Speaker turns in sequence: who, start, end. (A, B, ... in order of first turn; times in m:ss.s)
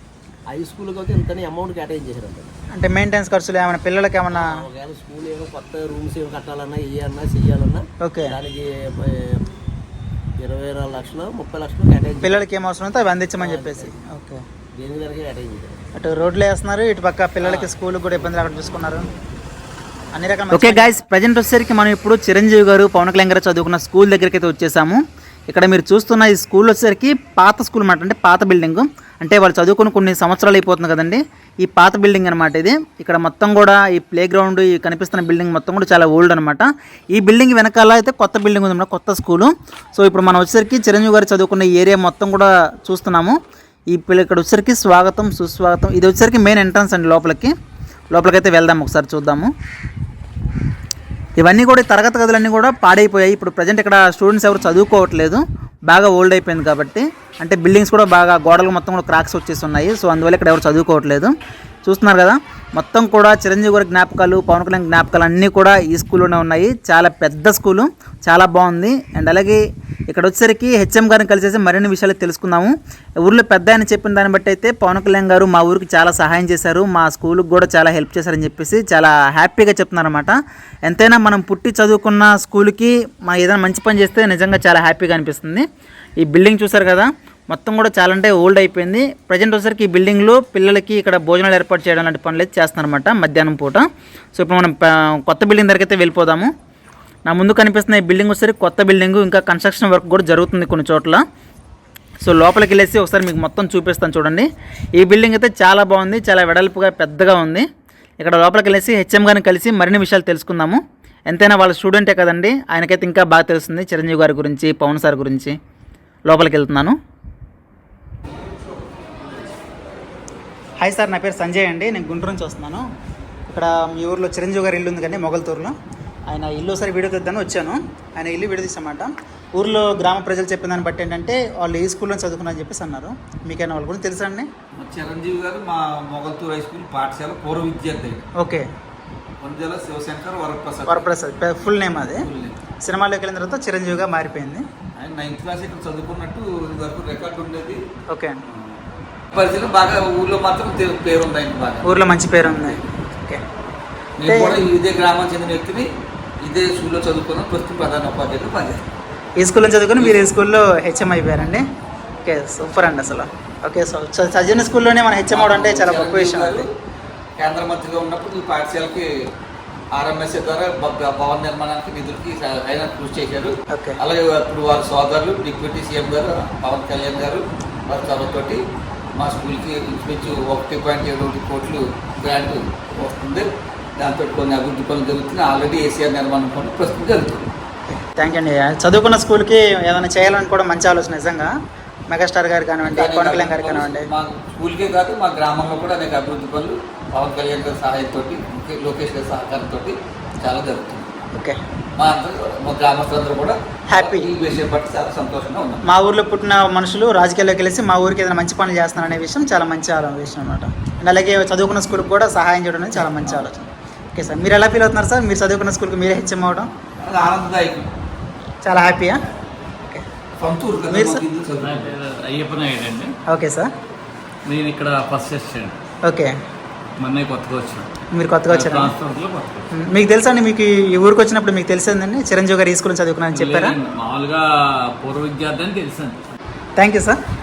0:00.5-0:02.5 A
0:02.7-0:04.6 B
0:04.3-0:09.4 A
0:08.0-0:08.3 B
0:10.4-0:12.5 A
0:12.2-0:14.4 B
0:13.4-0:13.9 A
0:14.7-0:15.8 A
0:16.0-0:19.1 B
0:17.4-0:19.2 A
0:20.1-0:43.4 B
0:20.5-0:20.9 A
0:43.9-0:47.5 B
0:48.1-0:49.5 B
0:51.4-1:01.3 B
1:01.8-1:25.6 B
1:26.2-1:36.5 B
1:37.3-1:41.2 B
1:42.2-1:47.6 B
1:48.2-1:55.6 B
1:56.3-1:57.0 B
2:00.8-2:02.8 B
2:03.5-2:05.7 B
2:06.3-2:14.5 B
2:14.7-2:18.2 C
2:18.4-2:18.6 B
2:19.4-2:21.1 C
2:20.9-2:22.2 B
2:22.0-2:22.6 C
2:22.8-2:24.6 B
2:25.0-2:27.8 C
2:28.1-2:28.4 B
2:29.3-2:31.9 C
2:31.8-2:33.4 B
2:32.5-2:32.8 C
2:34.2-2:35.9 C
2:34.2-2:34.6 B
2:36.4-2:38.8 C
2:39.4-2:41.6 B
2:40.0-2:40.3 C
2:42.2-2:46.7 B
2:45.3-2:46.7 C
2:47.4-2:49.1 C
2:49.9-2:58.6 C
2:53.7-2:54.0 B
2:59.1-3:07.5 C
3:07.9-3:11.5 B
3:12.1-3:14.1 B
3:12.8-3:21.1 C
3:21.9-3:25.8 C
3:23.9-3:24.3 B
3:25.8-3:36.7 B
3:37.0-3:37.9 C
3:38.6-3:39.2 B
3:40.4-3:42.0 C
3:40.9-3:41.2 B
3:41.6-3:43.2 D
3:43.3-3:43.7 B
3:44.5-3:45.7 D
3:46.0-3:46.3 B
3:47.0-3:47.8 D
3:48.1-3:48.9 B
3:48.5-3:49.6 D
3:49.7-3:53.8 B
3:53.4-3:54.4 D
3:55.0-3:56.0 D
3:56.8-3:57.2 B